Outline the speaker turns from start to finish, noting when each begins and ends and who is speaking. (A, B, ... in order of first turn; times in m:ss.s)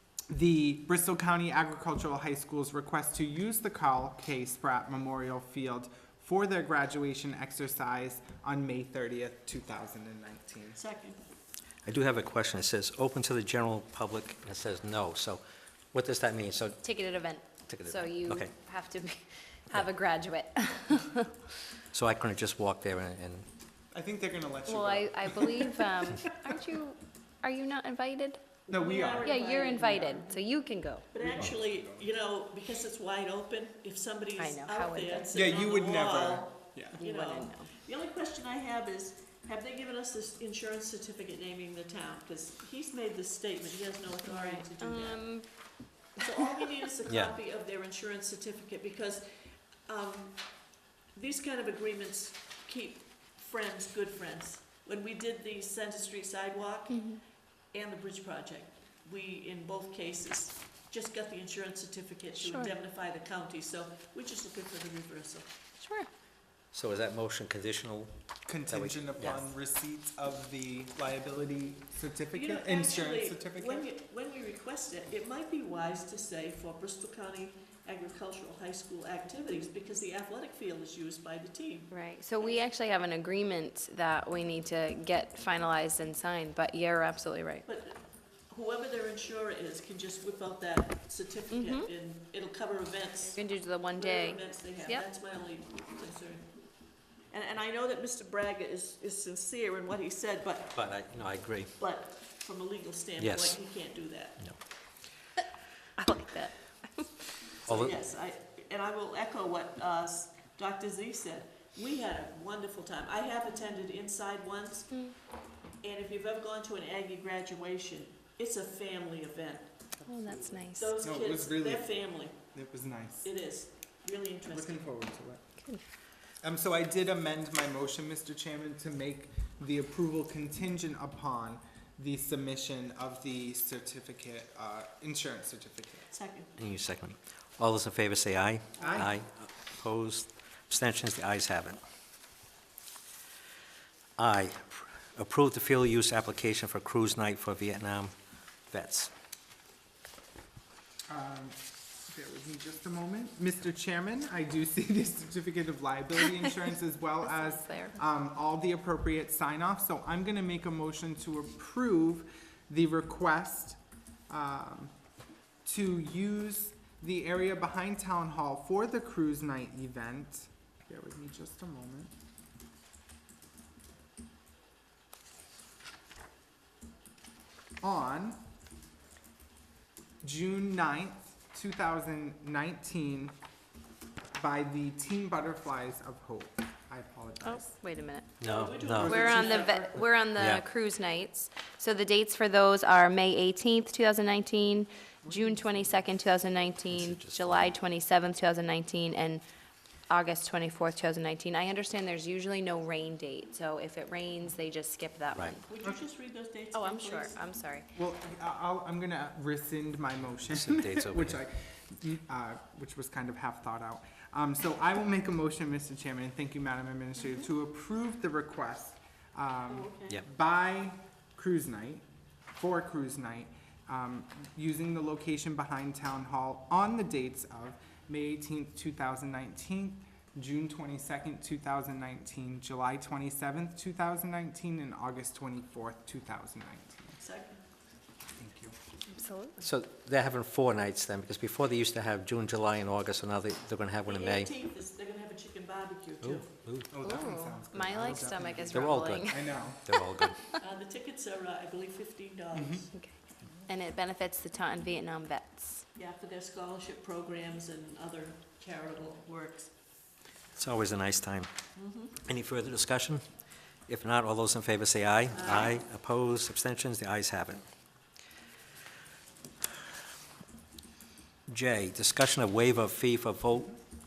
0:00.3-0:10.8 A
0:10.7-0:11.2 B
0:11.8-0:15.4 C
0:15.9-0:16.8 C
0:16.8-0:21.3 D
0:17.7-0:18.5 C
0:21.9-0:23.5 C
0:23.9-0:26.2 A
0:24.7-0:28.4 D
0:28.7-0:30.3 B
0:28.7-0:29.3 A
0:29.2-0:31.1 D
0:31.1-0:57.1 B
0:31.2-0:32.1 A
0:34.4-0:35.3 D
0:35.3-0:37.0 A
0:37.0-0:37.7 D
0:44.2-0:46.1 D
0:47.1-0:47.3 C
0:56.9-0:57.2 D
0:57.7-1:05.5 B
1:02.4-1:02.7 D
1:05.8-1:06.1 D
1:06.7-1:08.1 C
1:08.4-1:13.8 A
1:08.7-1:09.5 C
1:12.3-1:22.7 B
1:21.9-1:27.6 D
1:27.6-1:36.6 B
1:31.5-1:31.9 D
1:33.3-1:35.0 D
1:37.3-1:40.8 B
1:40.7-1:41.7 C
1:41.8-1:44.4 B
1:43.2-1:43.6 C
1:46.0-1:47.2 D
1:47.6-1:55.1 B
1:47.6-1:47.9 C
1:54.9-1:55.2 D
1:55.8-1:59.7 B
2:00.0-2:01.9 A
2:00.0-2:00.9 D
2:00.8-2:02.4 B
2:02.5-2:03.3 A
2:03.2-2:04.8 B
2:04.5-2:05.4 A
2:06.4-2:16.1 A
2:16.1-2:16.5 B
2:16.6-2:21.8 C
2:18.8-2:19.0 B
2:18.8-2:19.1 A
2:24.2-2:28.1 C
2:28.7-2:29.1 C
2:31.1-2:44.9 A
2:37.2-2:38.0 D
2:45.6-2:52.1 A
2:57.8-2:58.4 A
3:00.2-3:03.3 A
3:04.3-3:07.7 A
3:07.4-3:08.3 D
3:08.4-3:09.4 C
3:08.4-3:10.0 B
3:09.0-3:19.4 D
3:10.4-3:10.6 C
3:15.2-3:16.0 A
3:16.9-3:17.8 C
3:20.1-3:25.6 D
3:25.7-3:27.4 B
3:26.7-3:27.9 D
3:27.9-3:57.2 A
3:30.5-3:31.4 C
3:39.7-3:40.2 B
3:57.2-3:57.6 B
3:58.4-3:58.7 A
3:59.1-3:59.6 D
3:59.6-4:04.5 C
4:04.1-4:06.5 B
4:06.2-4:06.9 C
4:06.9-4:09.9 A
4:07.0-4:10.6 D
4:08.7-4:10.4 C
4:10.6-4:12.9 B
4:12.5-4:12.8 A
4:13.6-4:15.8 D
4:16.0-4:19.7 B
4:20.5-4:21.5 C
4:21.8-4:22.1 B
4:22.2-4:23.2 C
4:23.9-4:27.6 C
4:25.3-4:25.8 B
4:31.5-4:33.7 C